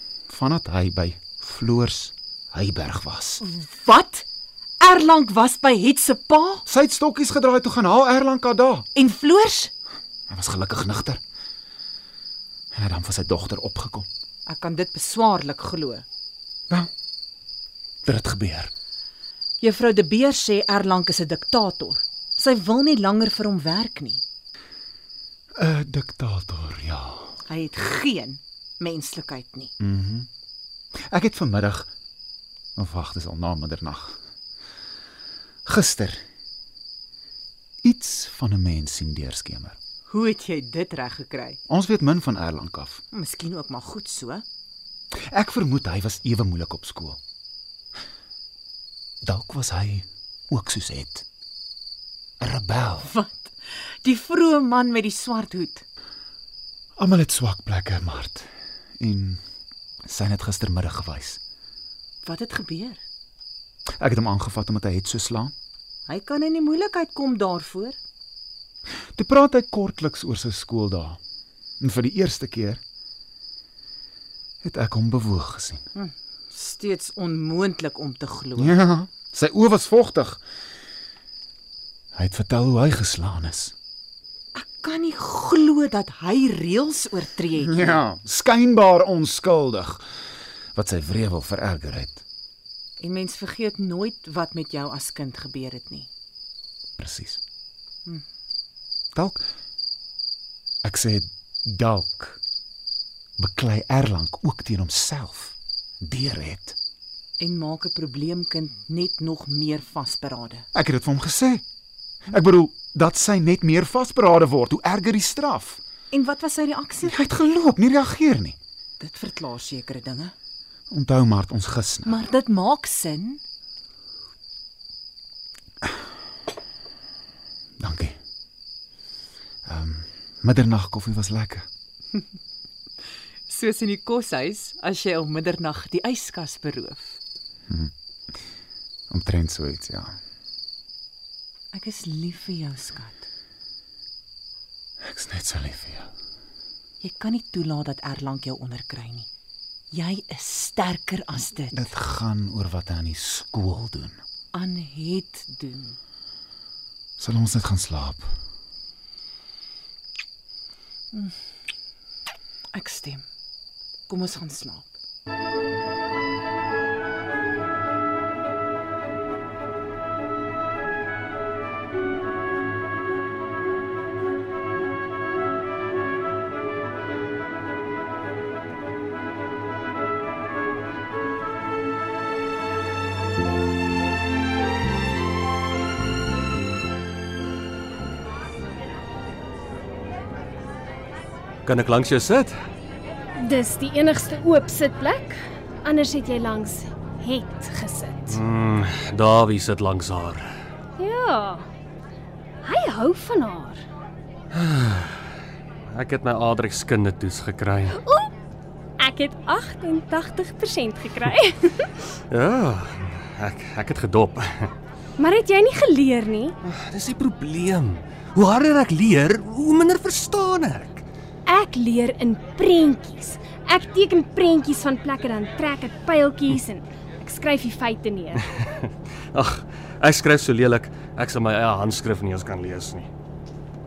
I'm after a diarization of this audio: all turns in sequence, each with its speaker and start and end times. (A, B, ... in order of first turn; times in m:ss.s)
0:00.3-0:03.4 A
0:03.4-0:04.2 B
0:04.8-0:06.7 B
0:06.7-0:08.8 A
0:08.9-0:09.7 B
0:10.3-0:11.2 A
0:12.7-0:14.1 A
0:14.4-0:16.1 B
0:18.0-0:18.7 A
0:19.6-0:24.2 B
0:25.6-0:27.4 A
0:27.5-0:29.7 B
0:29.8-0:30.3 A
0:31.1-0:31.9 A
0:32.8-0:34.2 A
0:35.6-0:36.2 A
0:37.8-0:39.8 A
0:40.1-0:41.6 B
0:41.7-0:43.0 A
0:43.1-0:44.4 B
0:45.3-0:47.2 A
0:49.2-0:51.2 A
0:52.4-0:53.1 A
0:53.0-0:55.8 B
0:57.0-0:58.5 A
0:59.0-0:59.4 A
1:00.1-1:01.4 A
1:02.2-1:03.0 B
1:04.0-1:05.5 A
1:06.1-1:08.0 B
1:09.1-1:11.2 A
1:11.8-1:12.8 A
1:14.6-1:15.8 A
1:15.9-1:18.8 B
1:18.6-1:20.4 A
1:22.2-1:23.7 A
1:24.5-1:28.0 B
1:27.5-1:30.0 A
1:30.8-1:32.2 A
1:33.0-1:36.1 B
1:37.0-1:37.4 A
1:39.2-1:39.4 A
1:40.8-1:42.4 A
1:43.4-1:46.8 A
1:47.4-1:50.7 B
1:50.7-1:51.6 A
1:52.3-1:55.8 A
1:56.1-1:57.2 B
1:57.0-1:58.6 A
1:59.0-2:00.3 B
2:00.9-2:02.2 A
2:02.0-2:03.4 B
2:07.8-2:08.2 A
2:09.6-2:11.7 A
2:13.5-2:17.2 B
2:19.1-2:20.2 A
2:21.7-2:23.3 B
2:25.0-2:26.1 A
2:27.0-2:29.3 B
2:29.9-2:31.9 B
2:31.7-2:34.2 A
2:34.5-2:36.0 B
2:37.2-2:38.3 A
2:42.7-2:43.2 B
2:44.1-2:44.9 B
3:11.6-3:12.6 C
3:13.4-3:18.4 D
3:18.3-3:20.6 C
3:21.0-3:21.7 D
3:22.6-3:23.8 D
3:24.5-3:25.3 C
3:25.9-3:28.0 C
3:28.0-3:28.3 D
3:29.0-3:31.9 D
3:32.3-3:34.7 C
3:35.2-3:36.6 D
3:36.6-3:41.0 C
3:41.4-3:48.4 D
3:48.6-3:53.1 C